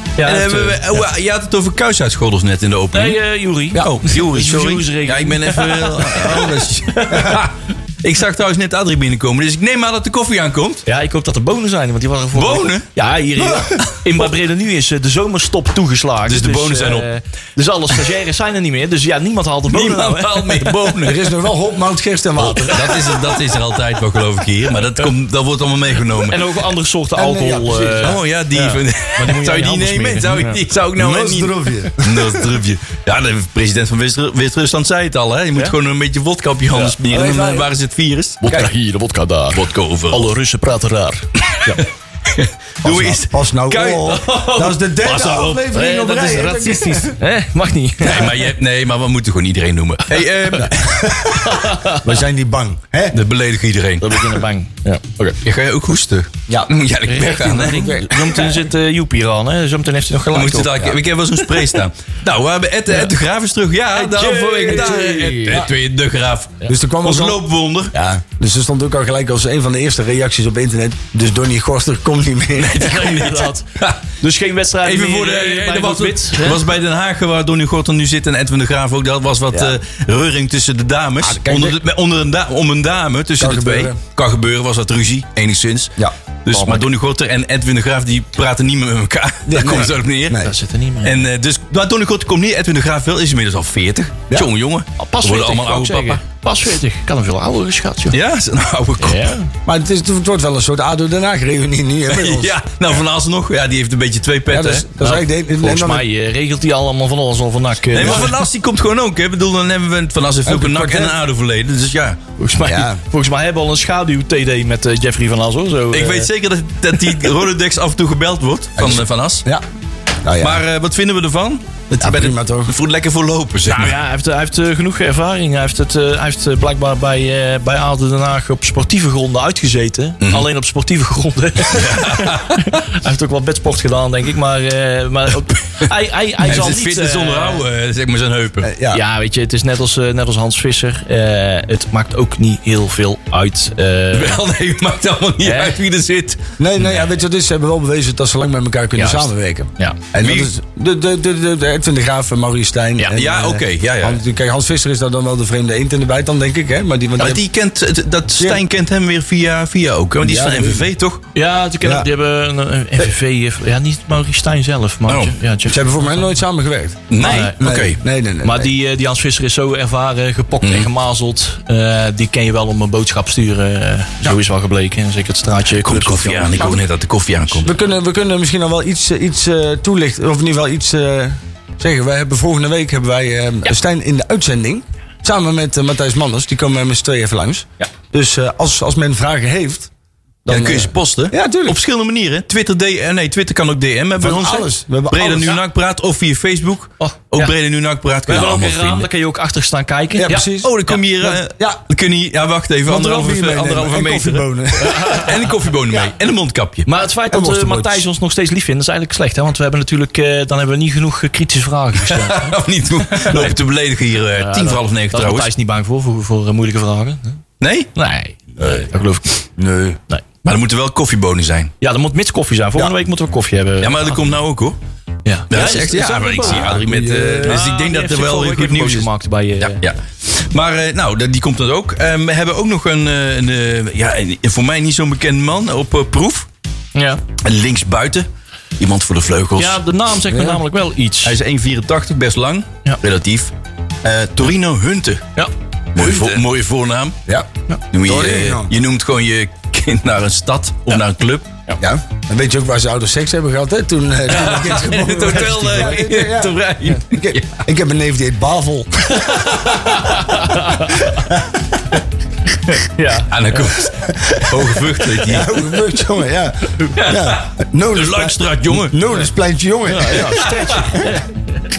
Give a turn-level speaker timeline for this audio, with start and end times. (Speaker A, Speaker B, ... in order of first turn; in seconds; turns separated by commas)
Speaker A: 0.2-1.0, Speaker B: 0.2-3.2, Speaker A: 2.9-7.4, Speaker B: 3.7-10.8, Speaker A: 10.8-20.9, Speaker B: 12.3-12.8, Speaker C: 13.4-13.8, Speaker B: 16.2-17.1, Speaker B: 19.7-21.3, Speaker C: 21.0-23.0, Speaker A: 22.4-23.1, Speaker B: 22.7-26.4, Speaker A: 26.1-30.6, Speaker C: 27.1-28.2, Speaker B: 28.0-38.5, Speaker C: 30.9-32.5, Speaker C: 37.0-37.7, Speaker A: 38.4-41.8, Speaker B: 39.5-40.3, Speaker B: 41.5-45.7, Speaker C: 42.8-47.1, Speaker A: 44.3-44.6, Speaker A: 45.7-48.4, Speaker B: 48.0-51.4, Speaker C: 50.6-53.2, Speaker A: 51.4-52.1, Speaker B: 53.1-54.3, Speaker A: 54.0-55.4, Speaker B: 55.4-58.5, Speaker A: 57.1-61.0, Speaker C: 57.6-58.3, Speaker B: 60.3-67.9, Speaker A: 63.9-65.6, Speaker C: 64.2-65.7, Speaker C: 66.7-67.4, Speaker C: 67.9-73.0, Speaker B: 72.6-74.0, Speaker A: 72.7-76.7, Speaker B: 74.8-90.4, Speaker C: 79.5-79.8, Speaker C: 81.2-81.8, Speaker C: 83.4-84.0, Speaker A: 86.5-86.8, Speaker C: 89.5-90.5, Speaker A: 90.4-91.2, Speaker B: 91.0-96.2, Speaker A: 95.0-98.2, Speaker B: 98.1-99.3, Speaker A: 99.0-99.5, Speaker C: 99.7-102.5, Speaker B: 102.1-104.8, Speaker C: 104.5-106.0, Speaker A: 105.0-108.3, Speaker B: 107.9-112.2, Speaker C: 110.4-111.2, Speaker A: 112.4-116.3, Speaker C: 112.6-113.0, Speaker B: 115.9-119.5, Speaker C: 118.8-119.6, Speaker C: 120.2-120.6, Speaker B: 120.4-124.0, Speaker C: 122.0-122.7, Speaker A: 123.7-137.6, Speaker B: 130.2-130.4, Speaker B: 131.7-132.7, Speaker B: 136.4-138.7, Speaker C: 138.6-139.0, Speaker A: 138.9-144.4, Speaker B: 144.1-146.4, Speaker A: 145.4-145.8, Speaker C: 146.6-157.4, Speaker A: 148.9-150.0, Speaker B: 150.2-150.5, Speaker B: 153.1-154.2, Speaker B: 157.2-161.2, Speaker C: 160.2-160.9, Speaker A: 161.3-166.2, Speaker C: 161.8-162.1, Speaker B: 165.1-165.4, Speaker C: 165.7-168.7, Speaker B: 167.1-168.0, Speaker A: 167.2-167.6, Speaker A: 168.4-176.8, Speaker B: 170.6-170.9, Speaker B: 175.8-177.7, Speaker C: 177.6-189.9, Speaker C: 190.4-191.8, Speaker B: 190.5-199.1, Speaker C: 194.2-195.6, Speaker A: 197.0-197.5, Speaker A: 198.3-200.5, Speaker C: 200.2-201.8, Speaker B: 200.6-206.9, Speaker C: 202.8-205.2, Speaker A: 204.8-205.5, Speaker A: 206.8-212.6, Speaker C: 207.3-208.0, Speaker B: 212.0-215.5, Speaker A: 213.1-213.5, Speaker A: 214.3-217.4, Speaker B: 217.6-217.9, Speaker A: 217.9-219.4, Speaker C: 219.6-220.0, Speaker B: 220.4-221.7, Speaker A: 221.8-224.2, Speaker B: 223.8-224.8, Speaker A: 225.2-229.8, Speaker B: 225.5-236.5, Speaker C: 226.4-227.6, Speaker A: 236.9-237.2, Speaker B: 237.4-239.8, Speaker A: 239.6-241.3, Speaker C: 240.3-240.6, Speaker B: 241.2-243.5, Speaker B: 244.0-245.2, Speaker B: 245.9-247.2, Speaker C: 246.0-246.4, Speaker B: 247.9-251.5, Speaker C: 248.0-248.7, Speaker C: 251.8-259.3, Speaker B: 254.3-257.6, Speaker A: 255.3-255.9, Speaker B: 259.2-260.1, Speaker A: 259.7-261.2, Speaker C: 261.1-261.6, Speaker A: 262.5-263.7, Speaker B: 263.3-265.7, Speaker C: 264.0-270.5, Speaker B: 266.9-269.1, Speaker A: 269.9-271.7, Speaker B: 270.2-271.1